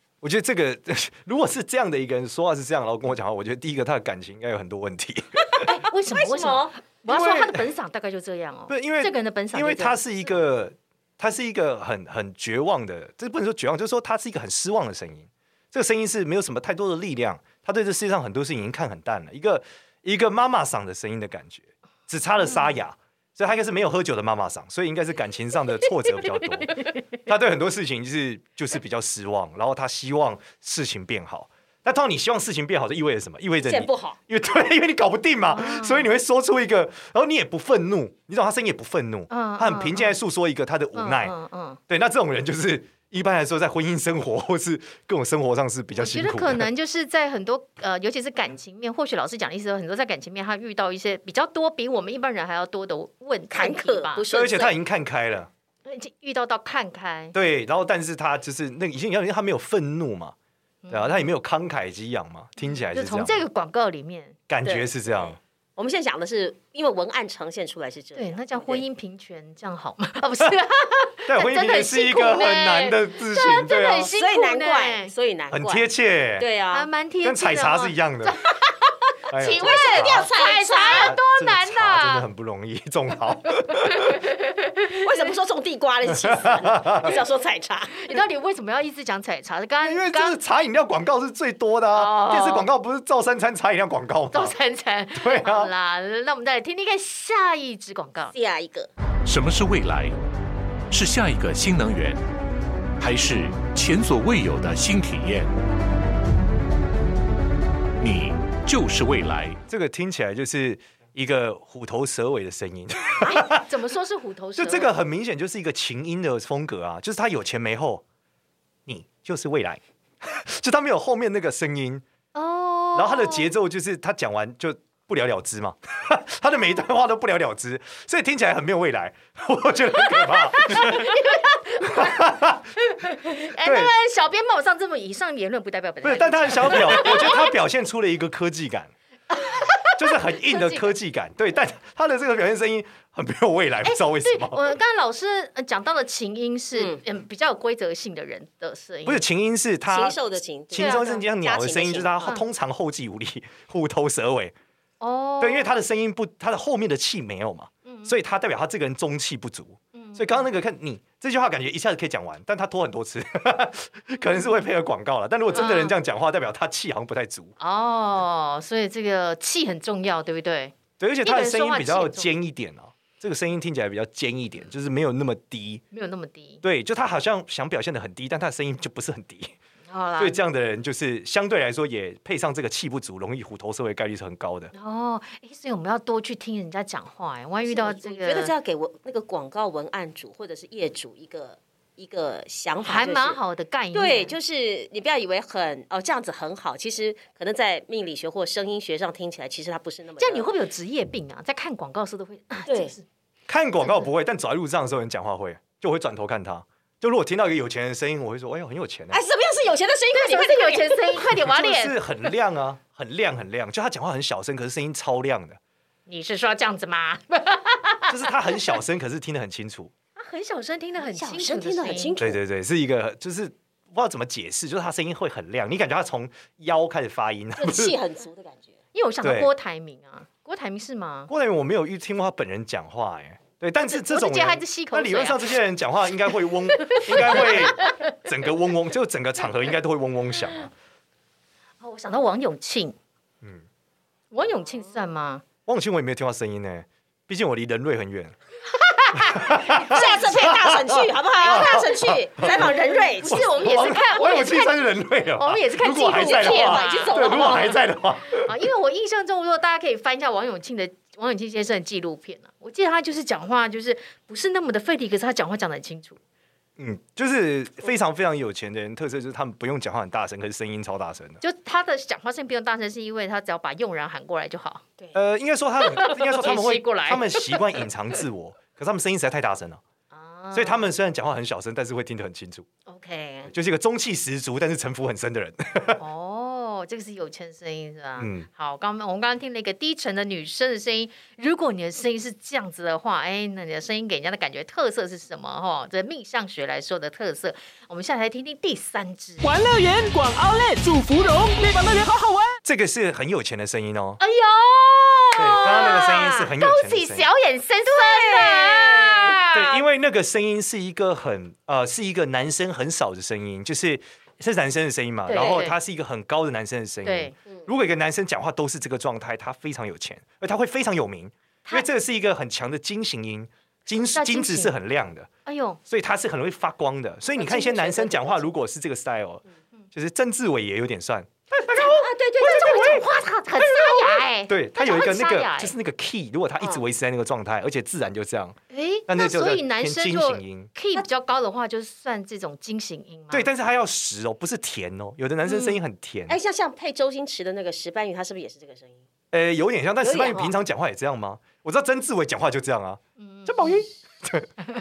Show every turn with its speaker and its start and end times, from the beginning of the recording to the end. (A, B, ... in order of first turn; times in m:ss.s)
0:00.2-0:05.6 A
0:05.6-0:06.7 B
0:05.6-0:10.0 C
0:07.1-0:07.6 A
0:08.7-0:41.3 A
0:33.6-0:34.2 B
0:35.5-0:36.1 C
0:39.3-0:40.2 C
0:40.9-0:41.8 C
0:41.9-0:46.7 A
0:45.9-0:54.2 C
0:53.5-0:54.7 B
0:54.3-0:55.5 A
0:55.8-0:57.3 C
0:57.3-1:00.3 A
1:00.8-1:01.3 C
1:00.9-1:03.4 A
1:02.7-1:04.4 C
1:04.5-1:05.4 A
1:04.6-1:08.8 B
1:08.1-1:15.1 C
1:11.2-1:14.1 A
1:14.1-1:16.9 B
1:15.5-1:16.5 A
1:16.7-1:18.5 C
1:17.2-1:18.4 A
1:19.3-1:20.3 A
1:19.3-1:22.3 C
1:19.6-1:21.1 B
1:20.9-1:24.2 A
1:23.8-1:25.0 C
1:25.0-1:28.0 B
1:26.2-1:27.1 A
1:27.9-1:30.4 C
1:29.8-1:34.5 A
1:31.9-1:32.7 C
1:34.3-1:38.3 C
1:35.1-1:35.7 A
1:38.3-1:38.9 B
1:39.2-1:40.1 D
1:40.9-1:42.2 D
1:43.0-1:45.5 D
1:48.0-1:49.6 D
1:49.7-1:53.6 A
1:53.2-1:54.9 C
1:54.6-1:58.0 A
1:58.8-2:02.0 A
2:02.3-2:03.5 C
2:02.9-2:11.2 A
2:10.5-2:12.2 C
2:11.8-2:12.7 A
2:12.9-2:17.5 C
2:13.6-2:13.9 A
2:16.0-2:18.9 A
2:19.3-2:20.9 C
2:20.0-2:24.7 A
2:23.8-2:29.2 C
2:26.8-2:27.0 B
2:29.0-2:30.2 A
2:29.9-2:32.3 B
2:30.7-2:34.5 A
2:30.8-2:31.2 C
2:35.0-2:35.7 C
2:35.4-2:47.5 A
2:37.8-2:38.1 C
2:39.9-2:40.5 C
2:44.2-2:44.6 C
2:45.5-2:46.0 C
2:47.6-2:52.3 C
2:51.0-2:55.8 A
2:55.9-2:56.6 C
2:56.6-2:59.6 A
2:59.9-3:00.4 C
3:00.2-3:04.7 A
3:04.7-3:08.5 C
3:07.6-3:13.4 B
3:12.8-3:14.3 C
3:13.9-3:20.5 B
3:20.2-3:23.0 C
3:22.7-3:22.9 B
3:23.5-3:29.2 A
3:29.1-3:31.2 B
3:30.1-3:32.0 C
3:31.4-3:35.6 A
3:36.1-3:38.2 C
3:38.1-3:39.9 A
3:40.2-3:42.2 C
3:41.0-3:42.4 B
3:42.2-3:48.0 A
3:47.6-3:48.8 B
3:48.9-3:51.3 C
3:49.2-3:49.5 A
3:51.3-4:00.7 A
3:53.9-3:55.5 C
3:56.8-3:58.0 C
4:01.8-4:03.0 C
4:04.3-4:05.4 C
4:05.7-4:08.3 A
4:08.8-4:09.5 C
4:09.1-4:18.5 A
4:09.8-4:13.5 B
4:12.5-4:14.8 C
4:15.4-4:17.7 C
4:16.1-4:17.8 B
4:18.4-4:26.2 C
4:26.8-4:31.4 A
4:31.4-4:34.8 C
4:35.1-4:39.8 A
4:35.8-4:37.6 C
4:40.1-4:40.9 C
4:40.5-4:42.7 A
4:42.9-4:43.5 C
4:43.5-4:46.0 A
4:46.0-4:59.5 C
4:48.2-4:48.5 A
4:59.4-5:02.6 E
5:02.6-5:04.2 A
5:04.2-5:09.8 C
5:05.4-5:07.3 A
5:05.4-5:06.5 B
5:07.9-5:09.4 B
5:09.5-5:25.3 A
5:15.3-5:15.8 C
5:17.0-5:17.3 C
5:24.1-5:24.7 C
5:25.4-5:25.8 C
5:25.9-5:33.0 A
5:27.4-5:28.4 B
5:32.0-5:33.0 B
5:32.4-5:35.7 C
5:33.8-5:40.7 A
5:38.7-5:43.5 C
5:43.3-5:46.4 A
5:46.3-5:49.0 B
5:49.3-5:54.5 A
5:50.0-5:50.5 B
5:53.2-5:53.8 C